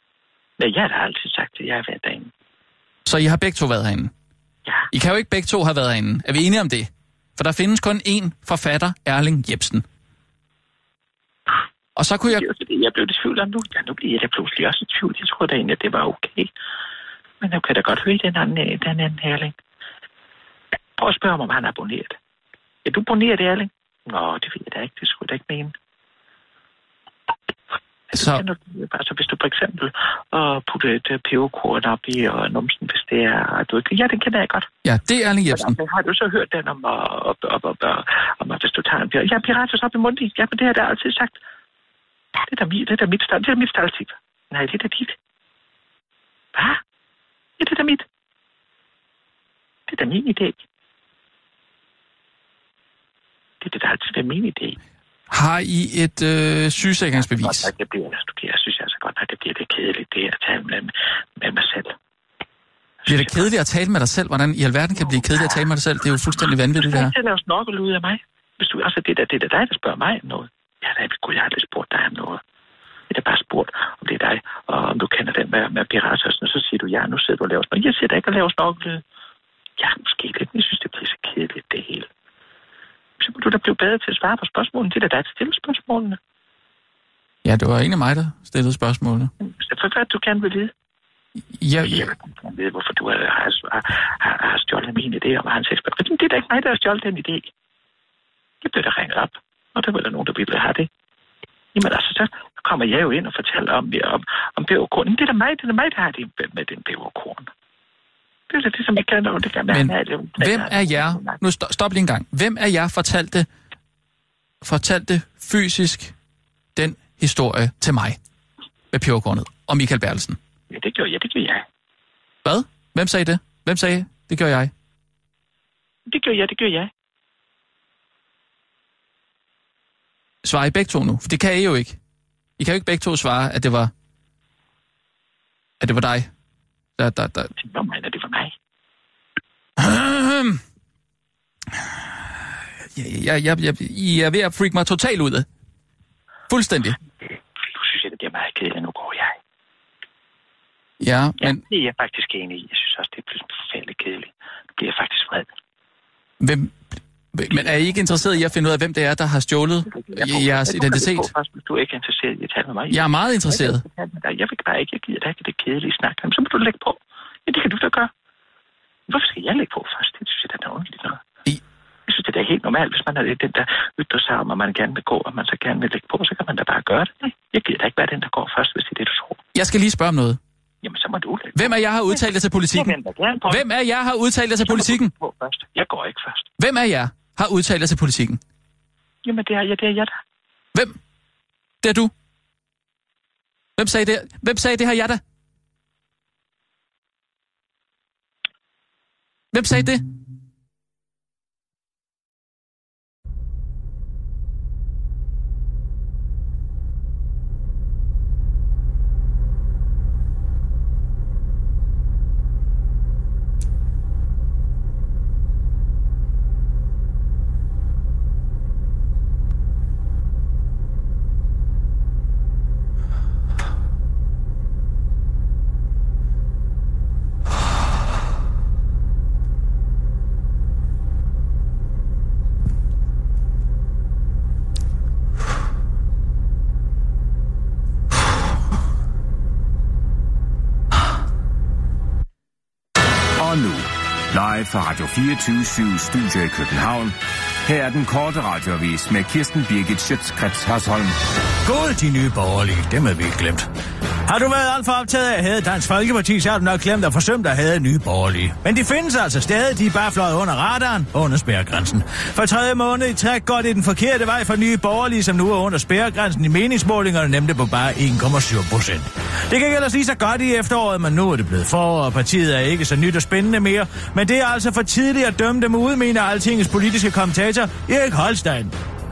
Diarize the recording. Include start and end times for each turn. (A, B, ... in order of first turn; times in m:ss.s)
0:00.6-0:02.3 A
0:03.0-0:04.1 B
0:04.9-0:09.8 B
0:12.0-0:12.5 B
0:12.3-0:16.5 A
0:17.4-0:19.5 A
0:21.0-0:22.2 A
0:22.8-0:25.7 A
0:28.1-0:34.7 A
0:28.1-0:28.4 B
0:34.8-0:35.8 B
0:35.5-0:41.4 A
0:42.3-0:45.1 A
0:46.5-0:46.8 A
0:47.6-0:48.0 A
0:49.9-0:50.6 A
0:53.6-0:54.8 A
0:55.3-0:57.7 B
0:57.3-1:01.9 A
1:03.0-1:03.5 A
1:03.1-1:07.1 B
1:05.2-1:05.5 A
1:06.8-1:12.4 A
1:13.1-1:19.0 A
1:19.8-1:22.1 A
1:23.2-1:26.2 A
1:27.4-1:29.3 B
1:29.4-1:30.7 A
1:31.6-1:32.1 B
1:31.8-1:37.5 A
1:38.6-1:40.9 A
1:41.7-1:47.5 A
1:48.5-1:51.4 A
1:49.7-1:53.5 B
1:54.6-1:56.1 B
1:56.8-1:58.2 B
1:58.9-2:00.4 B
2:00.7-2:01.6 A
2:02.4-2:04.7 B
2:06.1-2:06.9 A
2:10.4-2:12.0 B
2:12.6-2:13.9 B
2:15.8-2:16.3 B
2:17.0-2:17.5 B
2:17.6-2:18.5 A
2:19.8-2:20.6 B
2:21.7-2:22.2 B
2:22.9-2:25.5 B
2:26.5-2:27.0 B
2:27.7-2:29.4 A
2:31.0-2:31.6 B
2:31.4-2:35.5 A
2:36.4-2:36.8 B
2:37.3-2:41.3 B
2:39.9-2:48.1 A
2:42.9-2:43.8 B
2:49.1-2:51.2 A
2:52.1-2:59.4 A
2:59.5-3:00.4 B
3:00.8-3:03.6 A
3:01.6-3:03.0 B
3:03.5-3:05.1 B
3:04.6-3:06.5 A
3:06.6-3:08.4 B
3:09.2-3:10.2 A
3:11.8-3:12.1 B
3:13.8-3:15.2 B
3:19.5-3:20.1 B
4:03.4-4:11.2 C
4:11.6-4:13.7 D
4:14.3-4:38.7 D